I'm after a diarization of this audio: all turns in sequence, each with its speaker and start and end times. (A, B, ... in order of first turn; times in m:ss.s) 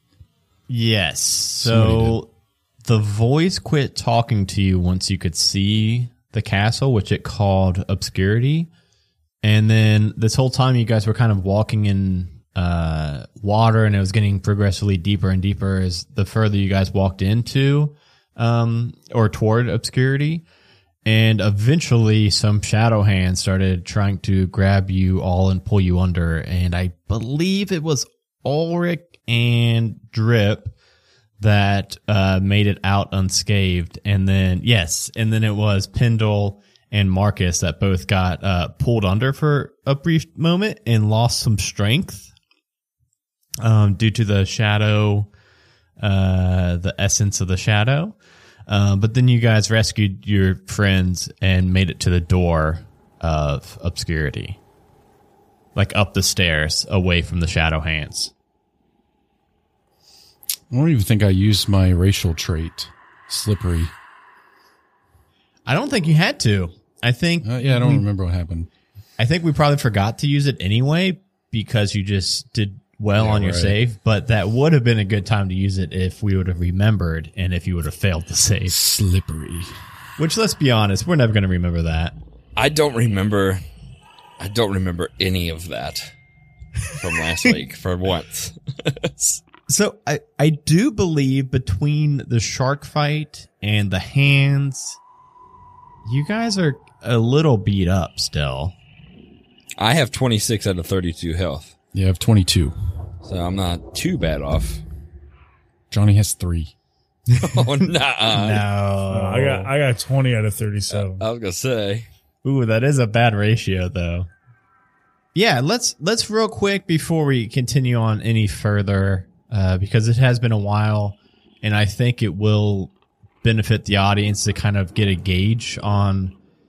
0:00.7-0:02.3 A
0:01.6-0:02.2 B
0:02.8-0:08.7 A
0:09.4-0:20.4 A
0:21.0-0:30.7 A
0:31.4-0:42.3 A
0:43.6-0:45.3 A
0:46.0-0:48.2 A
0:48.7-0:54.6 A
0:55.8-0:58.3 A
1:00.7-1:03.9 B
1:05.7-1:08.0 A
1:07.4-1:08.7 B
1:09.2-1:18.8 A
1:13.2-1:13.8 B
1:18.7-1:19.7 B
1:20.2-1:22.2 A
1:22.6-1:23.6 C
1:24.4-1:26.1 C
1:26.9-1:29.0 C
1:29.2-1:35.0 A
1:36.0-1:38.8 A
1:39.8-1:41.7 C
1:41.9-1:42.8 B
1:43.2-1:44.8 C
1:45.9-1:46.7 B
1:47.3-1:47.6 A
1:47.4-1:48.6 C
1:48.3-1:49.7 A
1:49.1-1:51.2 D
1:50.9-1:52.1 C
1:52.4-1:54.3 A
1:55.4-2:06.4 A